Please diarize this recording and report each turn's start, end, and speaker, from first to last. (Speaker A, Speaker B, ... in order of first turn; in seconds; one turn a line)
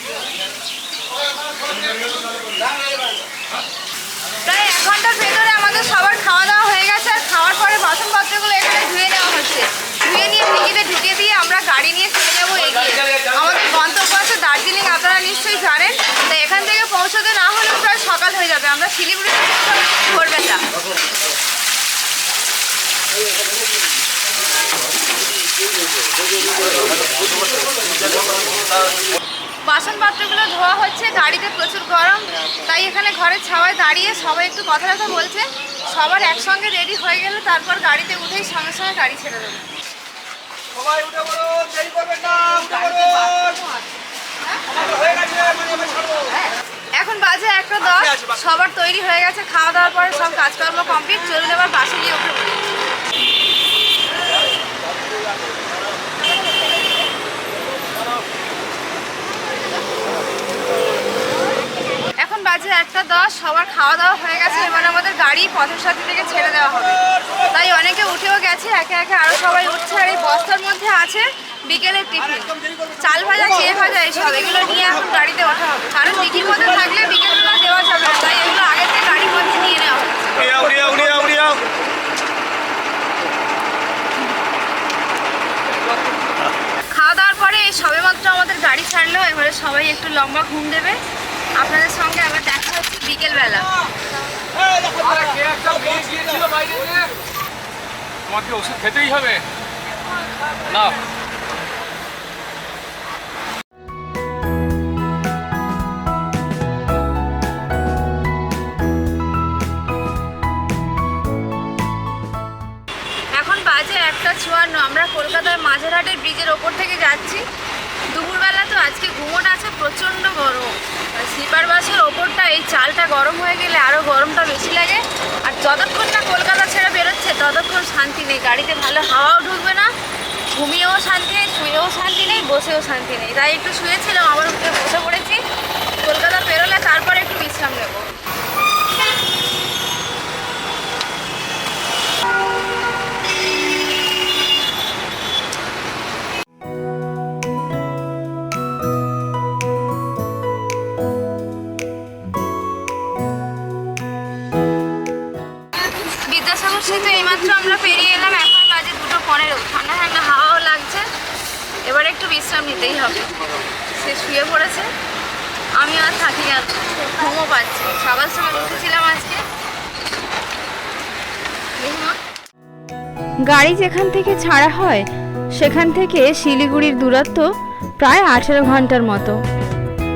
Speaker A: 4.4-20.6
Speaker A: 29.6-39.7
Speaker B: 40.8-43.4
Speaker A: 42.6-43.6
Speaker A: 44.4-44.6
Speaker B: 45.1-46.0
Speaker A: 46.3-52.6
Speaker A: 62.2-81.4
Speaker A: 86.9-91.0
Speaker A: 91.5-93.7
Speaker C: 95.1-97.1
Speaker C: 98.3-99.4
Speaker C: 100.6-101.0
Speaker A: 113.3-117.4
Speaker A: 118.1-129.9
Speaker A: 130.5-135.4
Speaker A: 136.0-138.1
Speaker A: 156.0-161.1
Speaker A: 161.8-164.9
Speaker A: 165.8-169.4
Speaker A: 171.8-172.2
Speaker D: 173.5-175.0
Speaker D: 175.6-177.4
Speaker D: 178.0-179.4